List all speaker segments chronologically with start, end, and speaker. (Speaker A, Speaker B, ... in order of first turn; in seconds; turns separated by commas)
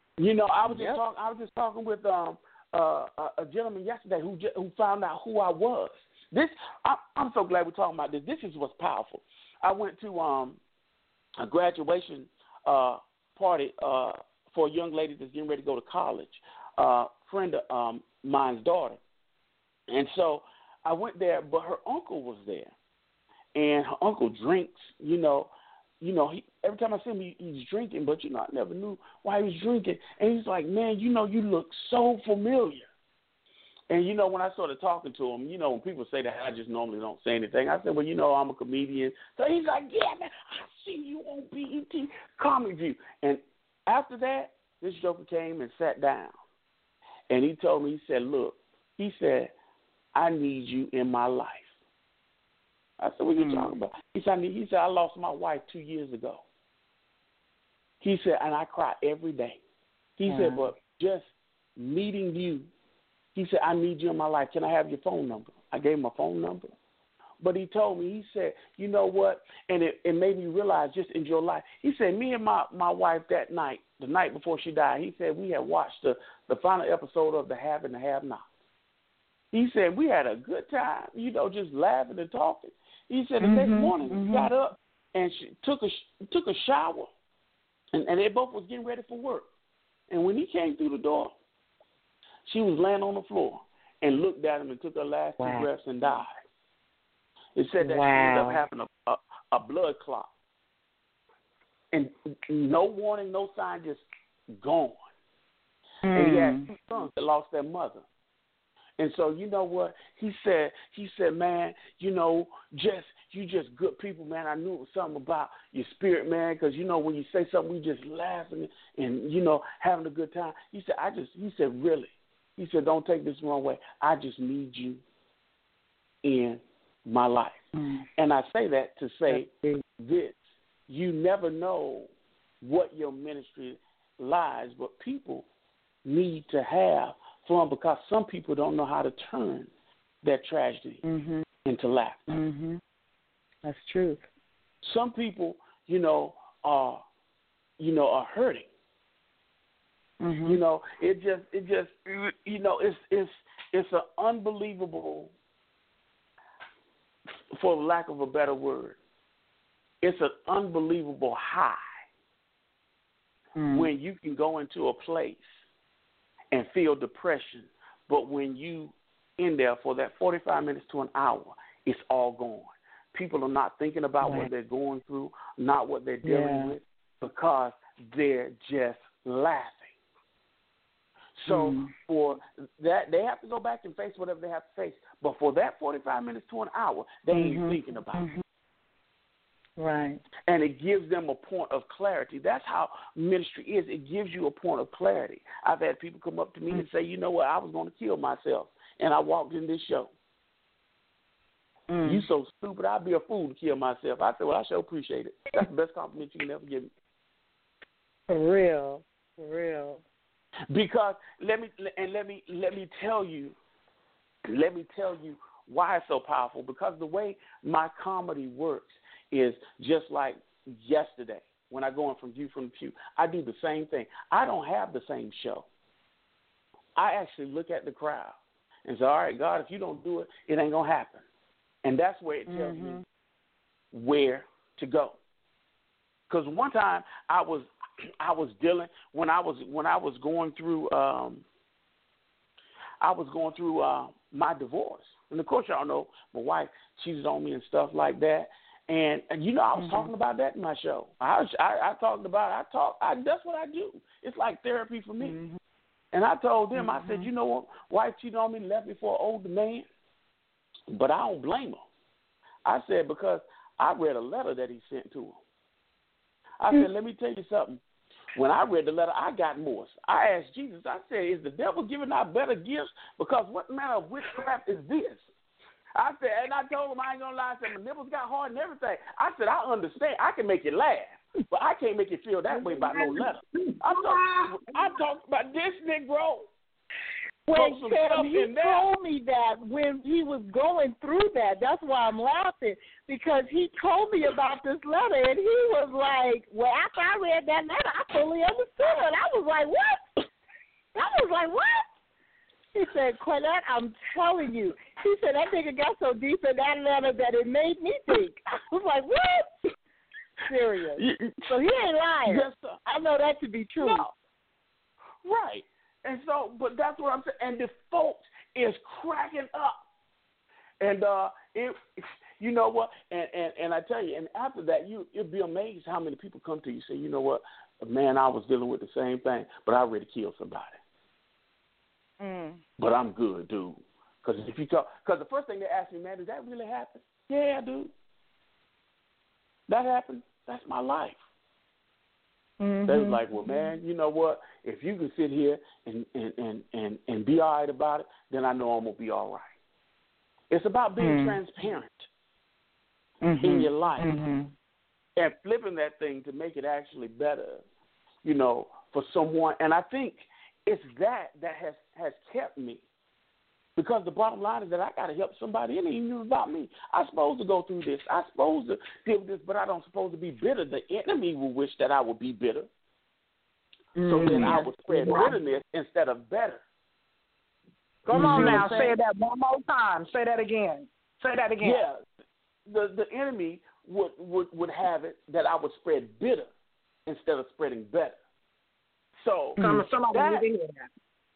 Speaker A: 0.2-10.6, Speaker B: 0.7-1.0, Speaker A: 11.4-19.0, Speaker A: 19.9-22.7, Speaker A: 23.6-32.9, Speaker A: 33.9-46.3, Speaker A: 47.3-49.5, Speaker A: 50.1-51.7, Speaker A: 53.0-56.4, Speaker B: 53.4-53.7, Speaker A: 58.0-59.6, Speaker A: 60.2-62.7, Speaker B: 60.3-60.6, Speaker A: 63.4-66.7, Speaker A: 67.4-78.4, Speaker A: 79.5-87.1, Speaker B: 83.4-84.5, Speaker A: 87.9-89.5, Speaker A: 90.1-91.3, Speaker A: 92.5-96.4, Speaker B: 95.4-95.7, Speaker A: 97.6-100.3, Speaker B: 97.8-98.6, Speaker A: 101.9-105.0, Speaker B: 106.0-106.7, Speaker A: 106.1-108.0, Speaker A: 109.0-125.0, Speaker A: 126.2-127.6, Speaker B: 127.8-128.1, Speaker A: 128.2-130.4, Speaker B: 129.3-129.8, Speaker A: 130.9-132.1, Speaker A: 132.6-135.5, Speaker A: 136.1-139.7, Speaker A: 140.2-141.0, Speaker B: 141.1-141.4, Speaker A: 141.7-142.4, Speaker B: 142.3-142.8, Speaker B: 143.6-144.2, Speaker A: 144.8-147.0, Speaker A: 147.8-148.7, Speaker B: 150.2-150.6, Speaker A: 150.5-155.3, Speaker A: 157.5-159.0, Speaker A: 160.0-161.8, Speaker B: 163.6-163.9, Speaker A: 163.7-165.4, Speaker A: 166.5-179.9, Speaker B: 174.2-174.5, Speaker B: 176.2-176.7, Speaker A: 181.4-188.3, Speaker B: 181.5-181.9, Speaker B: 187.3-188.4, Speaker B: 189.8-190.2, Speaker A: 190.5-200.1, Speaker B: 201.9-202.2, Speaker A: 202.0-206.9, Speaker B: 208.3-210.0, Speaker A: 210.7-213.6, Speaker A: 214.4-225.7, Speaker A: 227.0-231.2, Speaker A: 231.8-233.0, Speaker B: 232.5-233.0, Speaker A: 233.9-235.2, Speaker A: 236.3-237.7, Speaker A: 238.2-241.4, Speaker A: 243.0-255.4, Speaker B: 249.8-250.1, Speaker B: 255.2-255.6, Speaker A: 256.1-259.9, Speaker B: 256.8-257.3, Speaker A: 260.9-261.8, Speaker A: 262.6-265.4, Speaker A: 266.6-267.8, Speaker A: 268.3-275.2, Speaker A: 275.9-286.5, Speaker C: 282.5-284.6, Speaker B: 287.5-300.1, Speaker A: 287.5-288.9, Speaker B: 300.9-301.9, Speaker B: 302.8-309.5, Speaker B: 310.5-314.1, Speaker A: 311.0-311.4, Speaker A: 312.3-312.8, Speaker A: 313.8-314.1, Speaker A: 315.2-319.8, Speaker A: 320.8-330.8, Speaker B: 332.2-332.6, Speaker A: 332.8-337.9, Speaker A: 339.7-341.2, Speaker B: 342.6-343.7, Speaker A: 342.9-349.4, Speaker A: 350.5-352.1, Speaker B: 351.0-351.4, Speaker B: 353.2-354.5, Speaker A: 353.4-354.1, Speaker A: 355.2-357.6, Speaker A: 358.2-362.8, Speaker A: 363.8-372.7, Speaker B: 374.0-375.3, Speaker A: 374.1-376.6, Speaker C: 374.3-375.3, Speaker C: 378.1-381.8, Speaker B: 378.1-378.6, Speaker A: 378.1-378.9, Speaker A: 381.6-382.0, Speaker A: 382.7-386.5, Speaker A: 387.1-388.2, Speaker A: 389.2-390.5, Speaker B: 389.6-389.9, Speaker C: 389.6-390.9